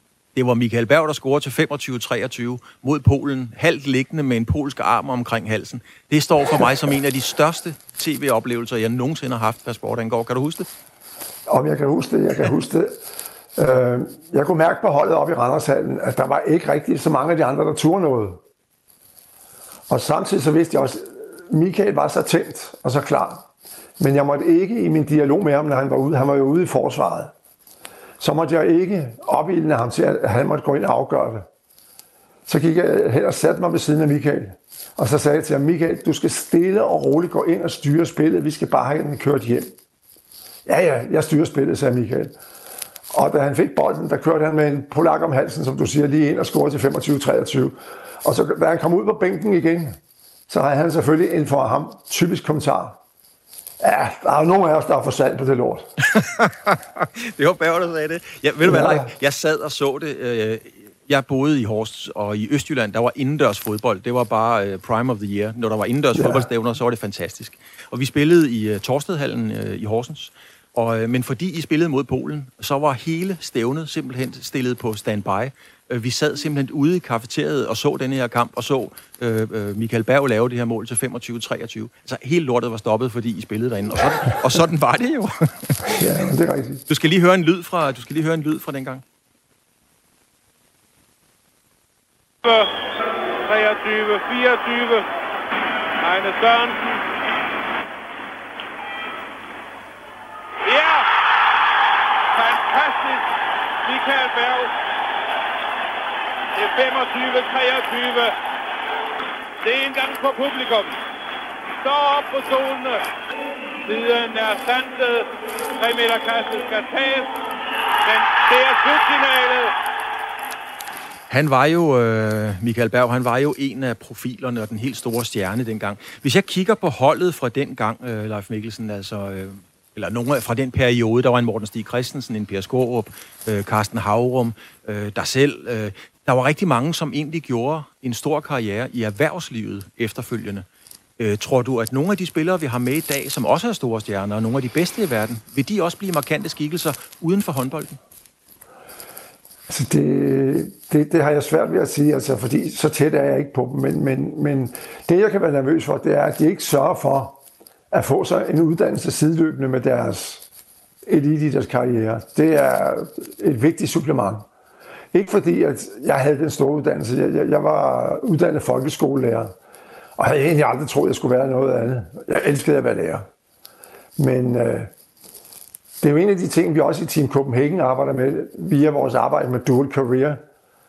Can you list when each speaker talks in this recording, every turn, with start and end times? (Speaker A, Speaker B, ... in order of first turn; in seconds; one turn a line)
Speaker A: 0.3-10.7
Speaker B: 11.5-13.0
Speaker B: 13.6-18.4
Speaker B: 19.9-23.5
Speaker B: 24.0-27.3
Speaker B: 28.2-31.5
Speaker B: 32.5-39.7
Speaker B: 40.7-42.4
Speaker B: 43.1-50.0
Speaker B: 50.5-53.0
Speaker B: 53.8-55.9
Speaker A: 56.1-86.0
Speaker B: 58.6-59.1
Speaker B: 66.2-66.5
Speaker B: 85.9-86.8
Speaker A: 86.9-89.0
Speaker C: 92.4-92.7
Speaker C: 93.4-95.1
Speaker C: 96.0-97.0
Speaker C: 100.6-101.1
Speaker C: 102.3-103.3
Speaker C: 103.8-104.7
Speaker C: 106.5-108.3
Speaker C: 109.6-110.9
Speaker C: 111.8-113.0
Speaker C: 113.8-117.3
Speaker C: 118.0-119.7
Speaker A: 121.3-140.7
Speaker A: 141.2-148.0
Speaker B: 149.7-157.4
Speaker B: 157.9-160.4
Speaker B: 161.1-164.5
Speaker B: 165.1-169.5
Speaker B: 170.2-173.3
Speaker B: 174.2-174.9
Speaker B: 176.0-180.4